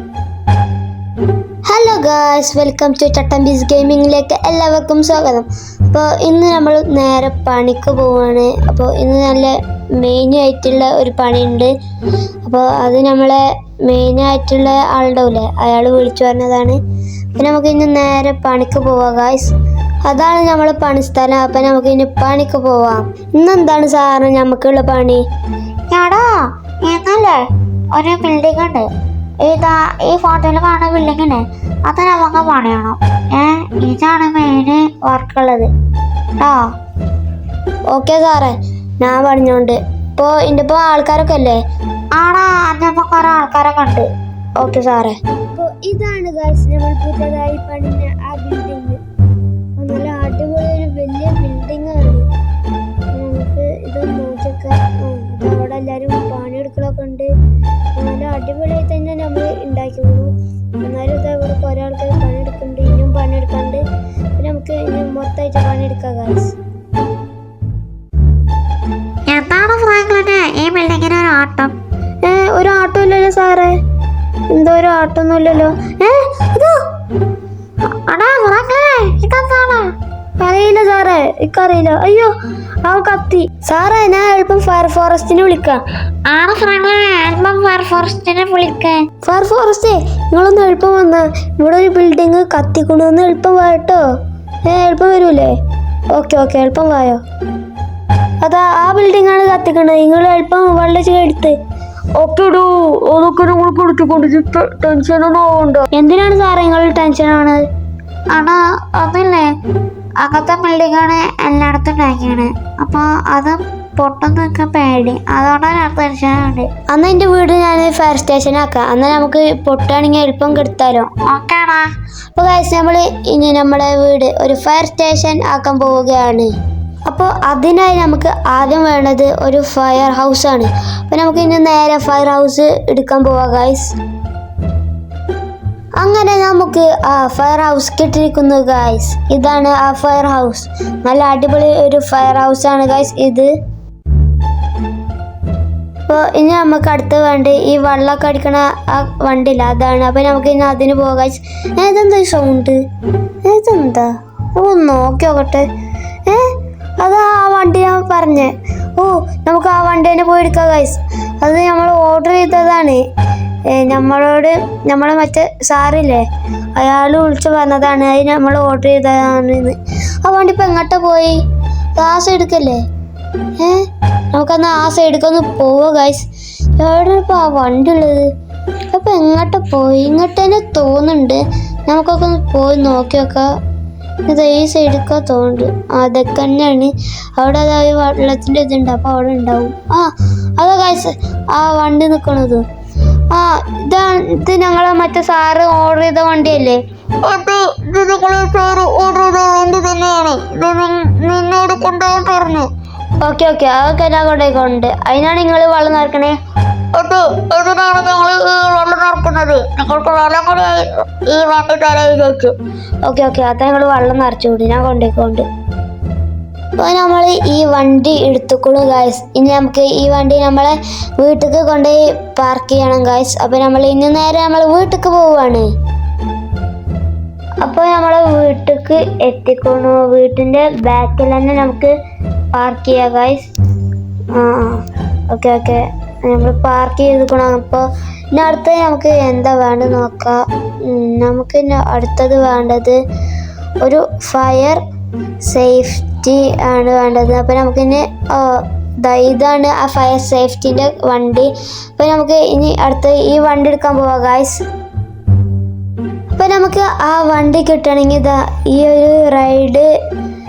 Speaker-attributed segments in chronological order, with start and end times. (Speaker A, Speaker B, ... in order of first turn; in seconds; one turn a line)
Speaker A: 1.7-11.7
Speaker A: 12.4-16.8
Speaker A: 17.4-19.5
Speaker A: 20.0-25.2
Speaker B: 25.9-27.4
Speaker B: 27.9-28.9
Speaker B: 29.4-35.7
Speaker B: 36.4-36.6
Speaker A: 37.9-41.6
Speaker B: 42.1-44.1
Speaker A: 44.6-49.0
Speaker A: 49.8-52.2
Speaker A: 53.1-57.3
Speaker A: 58.0-63.8
Speaker A: 64.4-66.5
Speaker B: 69.3-71.7
Speaker A: 72.2-73.8
Speaker A: 74.5-76.8
Speaker B: 78.0-79.9
Speaker A: 80.4-82.3
Speaker A: 82.8-85.8
Speaker B: 86.3-89.1
Speaker A: 89.2-94.0
Speaker A: 94.6-95.5
Speaker A: 96.1-97.2
Speaker A: 98.4-101.5
Speaker A: 102.2-107.6
Speaker B: 108.3-109.5
Speaker B: 110.2-116.7
Speaker A: 116.9-121.1
Speaker B: 121.2-121.9
Speaker A: 122.3-126.5
Speaker A: 127.1-133.9
Speaker A: 136.0-143.5
Speaker A: 146.1-152.8
Speaker A: 153.4-155.6
Speaker A: 156.2-163.0
Speaker A: 163.7-166.2
Speaker A: 166.8-171.4
Speaker A: 172.0-172.8
Speaker A: 173.6-176.2
Speaker A: 176.8-178.3
Speaker A: 178.9-183.4
Speaker A: 184.2-192.6
Speaker A: 193.3-196.8
Speaker B: 197.2-202.7
Speaker A: 203.2-206.4
Speaker B: 206.9-212.5
Speaker A: 213.0-215.4
Speaker A: 216.8-225.7
Speaker A: 227.6-231.9
Speaker A: 232.5-233.5
Speaker A: 234.3-243.0
Speaker A: 243.8-244.8
Speaker A: 245.4-254.6
Speaker A: 256.3-259.9